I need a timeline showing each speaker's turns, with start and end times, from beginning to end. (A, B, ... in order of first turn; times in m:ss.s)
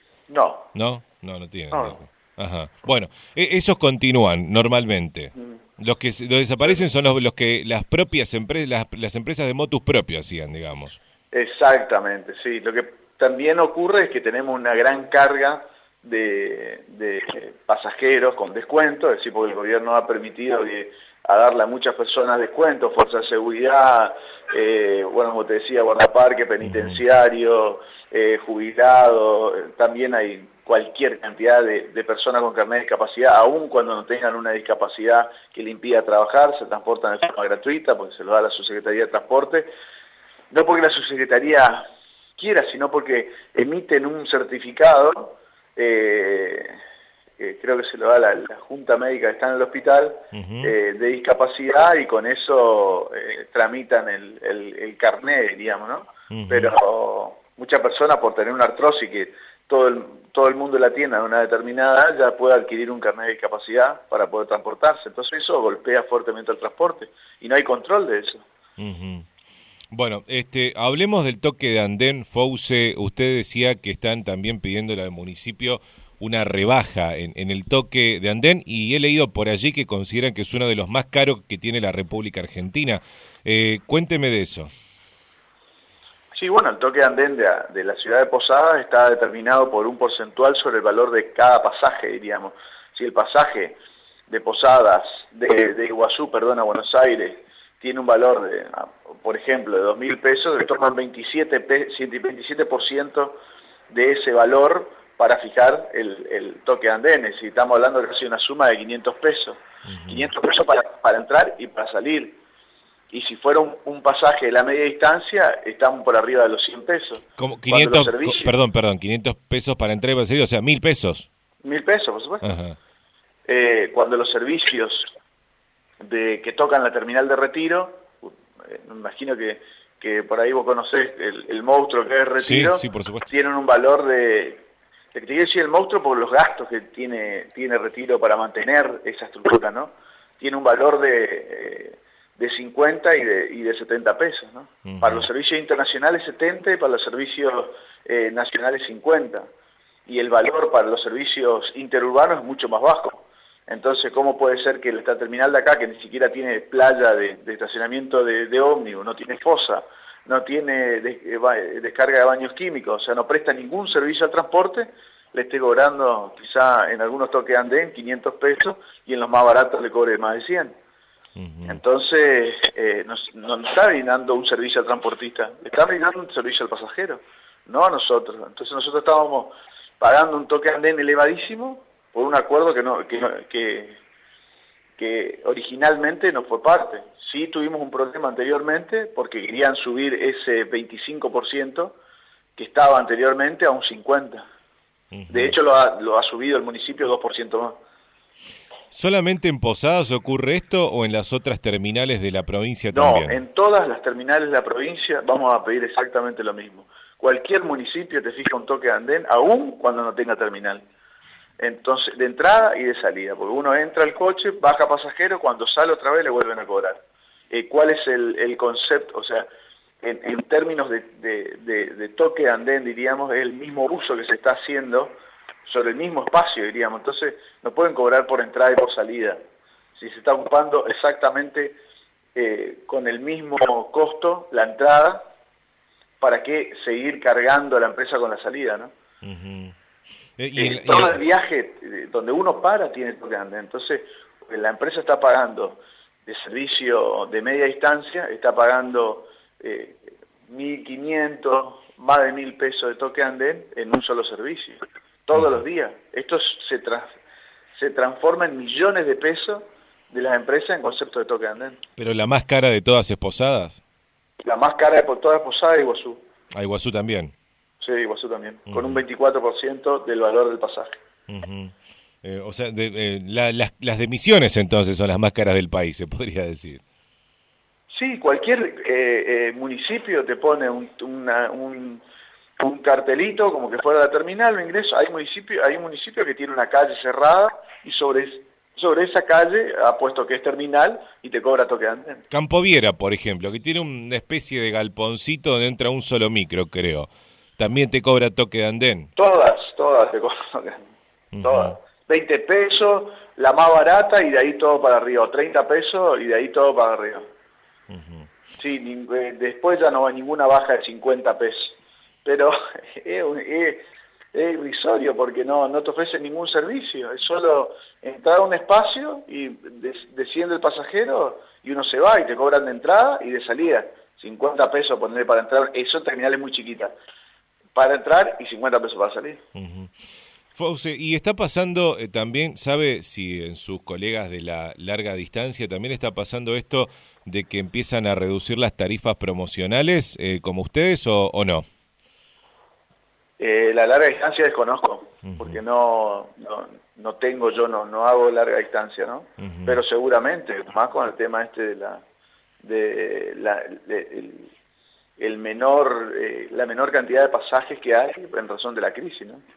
0:00.3-0:00.7 A
0:00.7-0:11.0 B
0:01.7-0:02.0 A
0:11.3-0:39.7 A
0:26.6-0:27.0 B
0:40.5-0:41.9 A
0:42.4-0:46.8 A
0:47.4-1:08.4 A
0:50.3-0:50.7 B
0:56.3-0:56.8 B
1:08.8-1:09.3 B
1:09.9-1:24.7 B
1:26.4-1:33.8 A
1:34.3-1:43.4 A
1:43.9-1:52.4 A
1:49.9-1:50.3 B
1:53.1-1:58.5 A
1:57.4-2:01.3 B
2:01.6-2:02.5 A
2:02.4-2:02.8 B
2:03.5-2:05.1 A
2:06.0-2:29.5 A
2:12.4-2:13.3 B
2:24.8-2:25.3 B
2:30.1-2:50.8 A
2:51.4-2:51.8 B
2:51.7-3:04.0 A
3:05.0-3:12.0 A
3:12.6-3:14.4 A
3:15.1-3:15.6 B
3:15.3-3:17.8 A
3:18.9-3:23.4 B
3:22.9-3:30.9 A
3:31.6-3:39.5 A
3:40.0-3:45.2 A
3:45.7-3:49.4 A
3:50.0-3:51.8 A
3:52.4-3:55.3 A
3:56.2-3:58.9 A
3:59.2-3:59.8 B
4:00.4-4:01.2 B
4:00.6-4:17.1 A
4:17.8-4:21.8 A
4:22.0-4:23.8 B
4:24.4-4:26.2 A
4:26.5-4:27.3 B
4:27.8-4:31.0 A
4:28.7-4:29.0 B
4:31.3-4:36.8 B
4:37.9-4:42.0 A
4:42.6-4:52.2 A
4:52.3-4:59.1 B
4:59.2-5:00.8 A
5:01.3-5:01.8 B
5:01.4-5:07.3 A
5:07.9-5:08.3 B
5:08.6-5:26.9 A
5:27.8-5:29.4 A
5:29.6-5:29.9 B
5:30.5-5:41.7 B
5:43.4-5:52.0 A
5:45.2-5:45.6 B
5:49.4-5:49.8 B
5:52.6-5:54.5 A
5:55.2-5:59.4 A